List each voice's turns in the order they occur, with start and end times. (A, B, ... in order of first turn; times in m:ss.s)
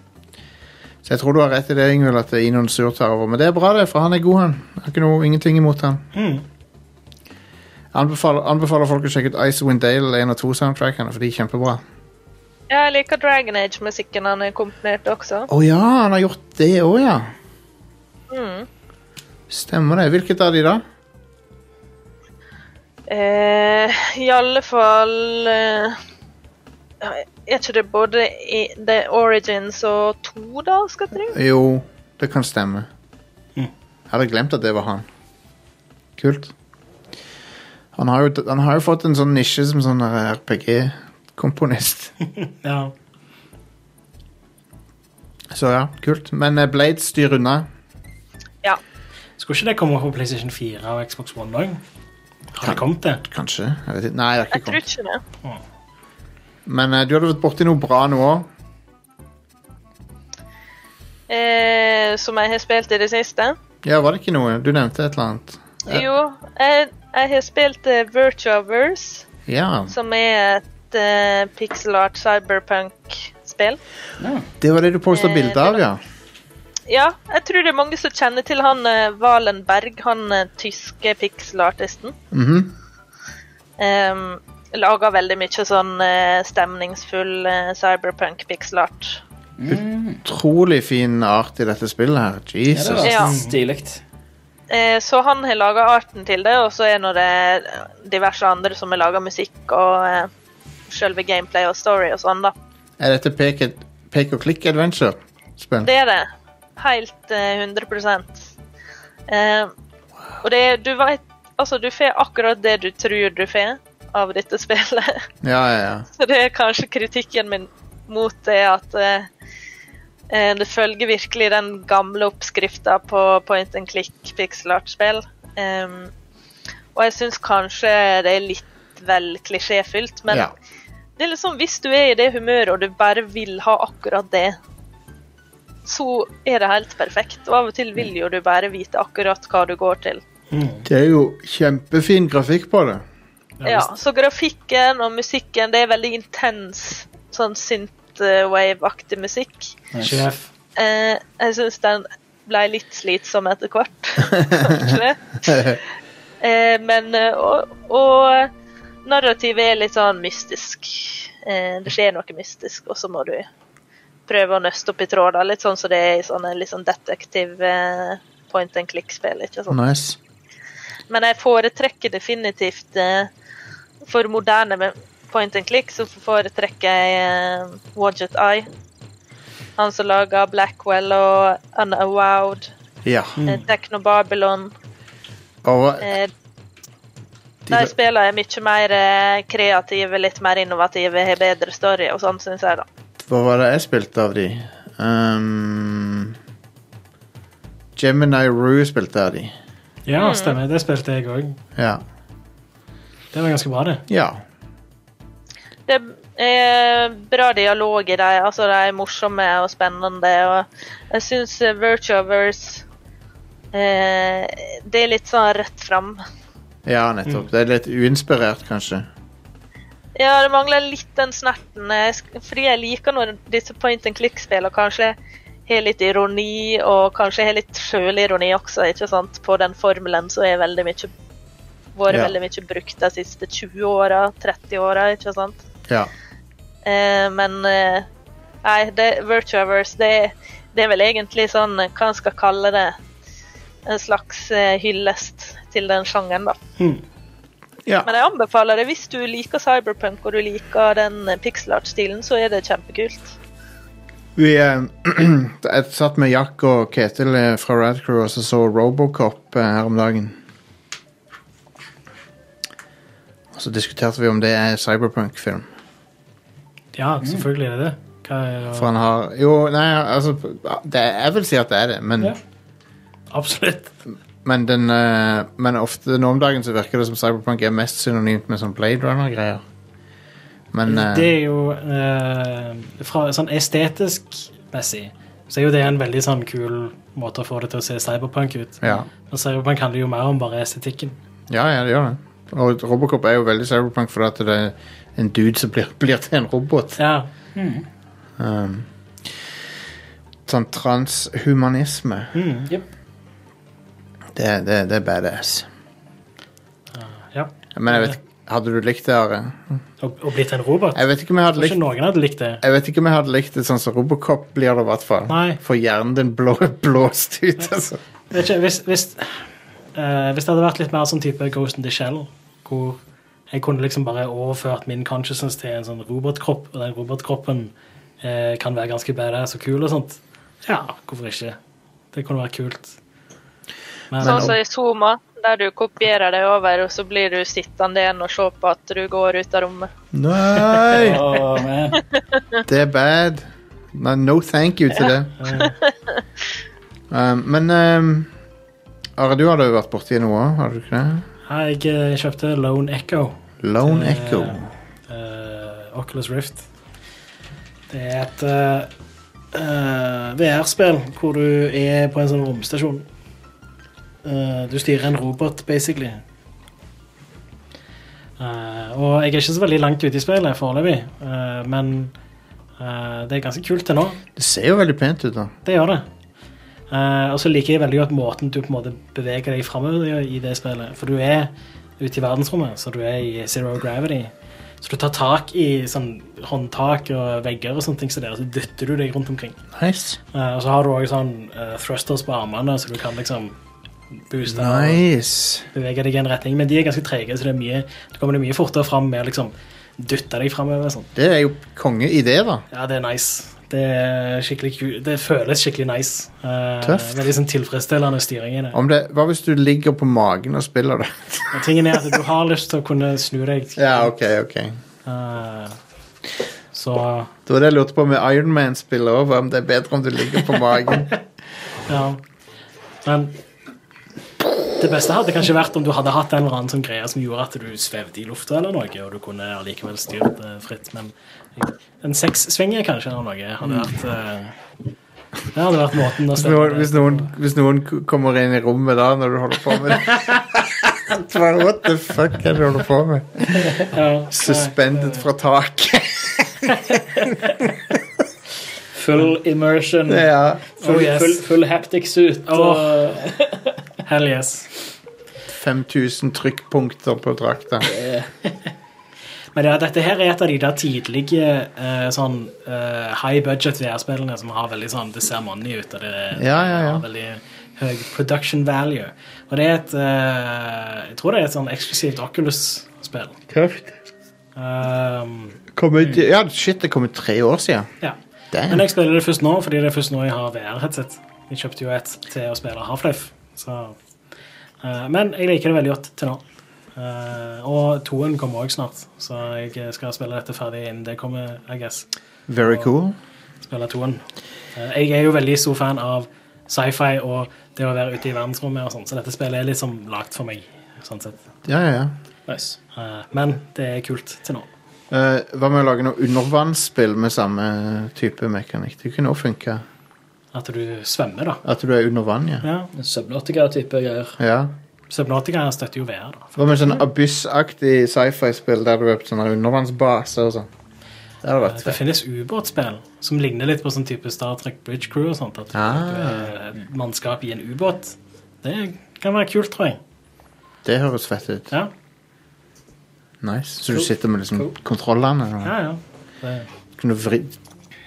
0:01.0-0:06.0 A
0:06.1-0:06.4 B
0:07.9-0:11.8 A
0:12.7-0:15.5 C
0:15.5-0:17.3 A
0:18.3-0:18.7 C
0:19.5-0:20.8 A
0:23.1-0:26.0 C
0:27.0-0:31.4 C
0:31.3-0:32.9 A
0:34.1-0:35.1 A
0:36.2-0:36.5 A
0:38.0-0:42.1 A
0:42.6-0:42.9 B
0:45.5-0:47.7 A
0:49.4-0:51.8 B
0:52.5-0:53.2 B
0:52.6-0:54.8 A
0:54.5-0:55.2 C
0:56.6-0:58.5 A
1:01.3-1:03.6 C
1:03.8-1:06.1 A
1:05.9-1:09.3 C
1:09.5-1:09.9 A
1:09.9-1:13.8 C
1:14.2-1:14.5 D
1:14.6-1:16.0 A
1:15.1-1:15.8 C
1:16.9-1:22.2 C
1:22.3-1:22.7 A
1:23.8-1:29.2 C
1:29.6-1:30.2 D
1:29.7-1:33.1 A
1:32.7-1:34.0 D
1:33.0-1:33.3 C
1:33.2-1:33.6 B
1:34.7-1:40.3 C
1:40.9-1:42.5 C
1:43.0-1:45.9 A
1:45.8-1:48.5 C
1:49.3-1:49.7 C
1:50.4-1:55.2 C
1:55.4-1:56.1 A
1:56.2-1:59.3 C
2:00.3-2:06.1 C
2:07.0-2:10.5 C
2:11.2-2:14.6 C
2:15.9-2:20.2 C
2:20.5-2:20.9 B
2:20.9-2:23.0 A
2:23.6-2:24.0 B
2:23.6-2:29.8 C
2:29.9-2:30.2 D
2:30.0-2:30.5 B
2:30.8-2:35.8 C
2:34.6-2:34.9 A
2:35.5-2:35.8 A
2:36.4-2:38.5 C
2:39.0-2:43.5 C
2:44.3-2:49.8 C
2:49.7-2:50.2 A
2:51.1-2:53.3 C
2:54.0-2:58.7 C
2:59.8-3:02.7 C
3:03.0-3:03.4 A
3:03.4-3:03.7 B
3:03.4-3:04.7 C
3:05.6-3:06.1 A
3:06.0-3:06.3 C
3:07.7-3:07.9 A
3:07.7-3:12.8 C
3:13.2-3:16.4 A
3:18.0-3:19.6 A
3:20.0-3:21.6 B
3:20.2-3:20.6 C
3:21.8-3:22.0 A
3:23.3-3:24.0 B
3:24.1-3:24.4 A
3:25.9-3:32.8 C
3:33.7-3:36.2 C
3:36.9-3:39.1 A
3:40.2-3:45.2 C
3:45.7-3:51.1 C
3:52.0-3:55.6 C
3:56.8-3:58.1 C
3:58.6-4:03.0 C
4:03.9-4:06.6 C
4:08.0-4:13.3 C
4:14.4-4:20.4 A
4:23.5-4:25.7 A
4:26.9-4:28.9 B
4:28.7-4:32.4 A
4:33.3-4:33.9 B
4:34.4-4:39.6 A
4:40.7-4:41.4 A
4:40.9-4:51.2 B
4:48.8-4:49.1 A
4:51.5-4:57.0 A
4:57.0-4:57.3 B
4:57.6-4:57.9 D
4:58.4-4:59.3 A
5:00.5-5:02.3 A
5:02.3-5:02.7 B
5:04.4-5:05.7 A
5:06.9-5:08.2 B
5:07.8-5:09.8 A
5:10.0-5:12.6 B
5:11.0-5:11.8 A
5:12.6-5:18.0 A
5:15.3-5:15.6 B
5:18.3-5:19.4 B
5:20.0-5:23.0 B
5:23.5-5:31.6 B
5:32.1-5:33.0 B
5:34.1-5:34.5 B
5:34.2-5:34.6 A
5:34.2-5:39.9 C
5:40.1-5:41.2 A
5:40.9-5:42.0 D
5:42.7-5:45.3 A
5:45.4-5:45.8 B
5:47.1-5:48.3 A
5:49.2-5:51.3 A
5:51.5-5:56.6 B
5:53.6-5:54.7 A
5:57.9-5:58.9 B
5:59.5-6:03.0 B
6:04.2-6:06.2 B
6:08.4-6:12.1 B
6:12.8-6:14.2 B
6:14.4-6:15.5 A
6:15.6-6:16.0 B
6:16.9-6:24.3 B
6:24.8-6:29.6 B
6:29.8-6:30.2 A
6:30.3-6:33.6 B
6:34.3-6:35.0 B
6:34.4-6:35.7 A
6:35.7-6:41.1 B
6:41.2-6:42.6 A
6:42.7-6:48.8 B
6:46.8-6:47.3 A
6:48.7-6:51.6 A
6:51.5-6:54.1 B
6:53.8-6:54.8 A
6:55.0-6:55.8 B
6:56.7-6:57.3 B
6:57.5-7:01.2 A
7:01.9-7:02.2 B
7:03.0-7:03.4 B
7:04.8-7:14.5 B
7:15.5-7:17.3 B
7:16.3-7:23.7 A
7:23.6-7:25.3 B
7:24.3-7:26.5 A
7:28.9-7:33.7 D
7:30.1-7:30.8 A
7:30.8-7:31.4 B
7:32.5-7:33.1 B
7:34.1-7:34.7 B
7:35.5-7:37.9 A
7:37.8-7:38.3 D
7:39.5-7:53.4 B
7:46.3-7:47.0 A
7:53.5-7:54.0 A
7:54.6-7:55.6 B
7:55.7-7:57.9 A
7:58.5-7:58.9 A
7:58.7-8:04.0 B
8:04.8-8:06.4 B
8:07.0-8:12.1 B
8:12.5-8:13.2 A
8:12.6-8:12.9 B
8:13.6-8:14.2 B
8:14.8-8:21.4 B
8:21.6-8:22.1 A
8:22.5-8:22.8 D
8:22.9-8:24.7 B
8:25.1-8:29.8 A
8:30.5-8:31.6 B
8:31.6-8:32.7 A
8:32.6-8:32.9 B
8:33.0-8:34.4 D
8:34.4-8:34.7 A
8:35.1-8:36.8 B
8:36.6-8:40.7 A
8:41.4-8:42.0 A
8:41.6-8:50.0 B
8:45.7-8:46.5 A
8:50.8-8:51.7 A
8:53.4-8:55.8 A
8:53.9-8:54.8 D
8:55.6-8:56.7 B
8:57.0-8:57.6 A